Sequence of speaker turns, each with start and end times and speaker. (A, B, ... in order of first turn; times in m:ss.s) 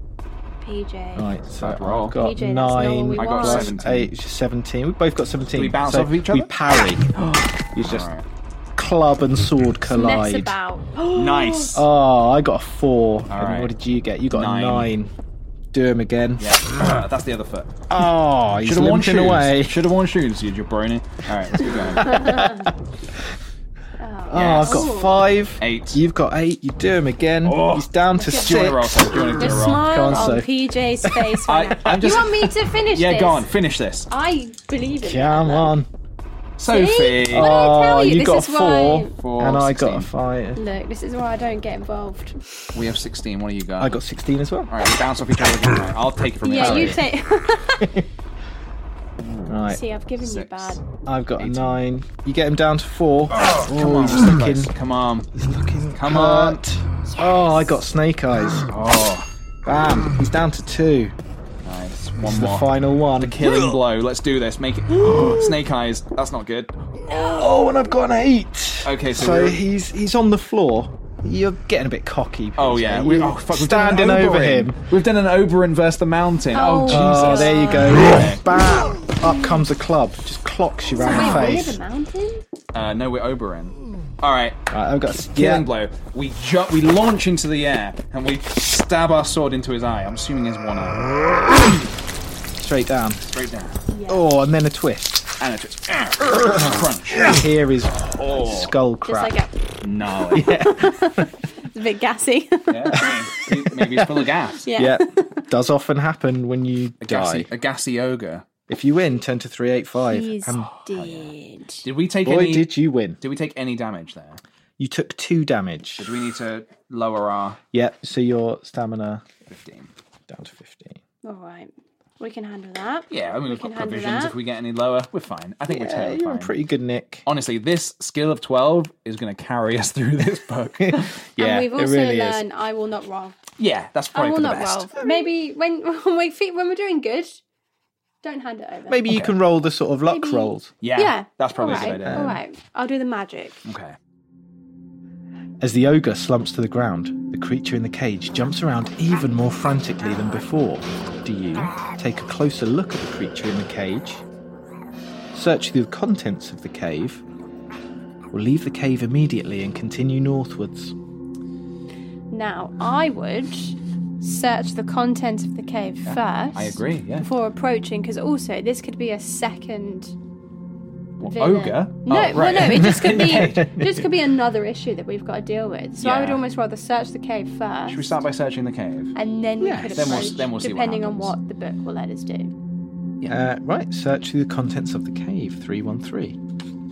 0:00.6-0:01.4 A
0:01.2-0:07.2 B
0:01.6-0:02.2 C
0:02.2-0:03.7 A
0:03.2-0:04.1 C
0:05.5-0:06.5 C
0:07.2-0:08.2 C
0:07.7-0:08.1 B
0:08.8-0:10.6 B
0:09.9-0:11.8 A
0:11.1-0:11.8 C
0:11.7-0:15.1 B
0:13.3-0:13.7 C
0:14.3-0:14.9 C
0:15.7-0:16.6 B
0:16.4-0:17.8 C
0:17.9-0:19.8 B
0:18.6-0:22.3 C
0:22.0-0:22.7 A
0:22.0-0:22.7 B
0:24.0-0:25.1 A
0:24.3-0:32.3 B
0:24.3-0:24.9 C
0:25.6-0:26.0 C
0:27.4-0:30.4 C
0:28.2-0:28.6 A
0:29.4-0:33.5 A
0:31.5-0:34.1 C
0:34.1-0:35.7 A
0:35.0-0:35.9 B
0:36.6-0:37.5 C
0:36.7-0:39.1 A
0:37.2-0:40.6 B
0:39.2-0:40.1 C
0:40.6-0:42.8 A
0:42.7-0:44.0 C
0:43.8-0:44.7 B
0:44.7-0:47.0 C
0:46.4-0:48.0 A
0:46.6-0:47.0 B
0:49.2-0:49.5 C
0:49.5-0:49.8 B
0:49.7-0:50.8 A
0:50.2-0:50.8 C
0:51.0-0:54.7 B
0:51.4-0:51.8 C
0:53.4-0:55.3 C
0:55.3-0:58.7 B
0:56.0-0:56.6 C
0:58.7-0:59.3 C
0:59.6-1:01.2 B
1:01.6-1:06.8 C
1:02.2-1:03.8 B
1:05.0-1:05.5 B
1:07.0-1:14.8 B
1:08.8-1:09.6 C
1:12.6-1:18.4 C
1:16.5-1:18.1 A
1:16.8-1:21.8 B
1:21.0-1:22.4 A
1:22.7-1:24.6 C
1:24.7-1:25.7 B
1:25.4-1:31.6 C
1:32.6-1:33.2 B
1:33.3-1:33.8 C
1:33.9-1:34.3 A
1:34.1-1:35.4 B
1:35.4-1:37.4 C
1:36.4-1:39.4 B
1:38.1-1:38.7 C
1:39.1-1:39.6 A
1:39.8-1:40.5 C
1:40.3-1:41.3 B
1:40.5-1:43.2 A
1:42.7-1:44.7 C
1:43.7-1:47.5 B
1:44.6-1:45.5 A
1:47.0-1:48.5 C
1:48.7-1:50.7 B
1:50.1-1:51.8 A
1:50.9-1:51.3 C
1:51.8-1:54.4 C
1:52.2-1:53.2 B
1:54.8-1:56.1 B
1:56.0-1:57.6 C
1:57.7-1:59.2 B
1:59.5-1:59.9 C
2:00.3-2:01.0 B
2:01.2-2:04.4 A
2:03.1-2:06.5 C
2:05.7-2:07.2 B
2:07.2-2:11.2 C
2:10.8-2:12.4 B
2:11.4-2:13.4 A
2:13.6-2:14.9 C
2:14.2-2:17.4 A
2:18.2-2:19.0 A
2:18.9-2:20.7 B
2:19.1-2:19.4 C
2:20.1-2:23.6 A
2:20.8-2:22.3 C
2:22.0-2:22.4 B
2:23.7-2:24.0 C
2:25.6-2:34.2 B
2:35.3-2:37.2 B
2:38.3-2:41.0 B
2:42.3-2:50.2 A
2:46.1-2:47.3 C
2:51.2-2:53.8 C
2:51.2-2:58.2 A
2:53.0-2:53.7 B
2:56.0-2:56.4 C
2:57.9-2:59.1 C
2:59.2-3:02.5 A
2:59.6-3:00.3 B
2:59.9-3:01.3 C
3:03.3-3:06.4 B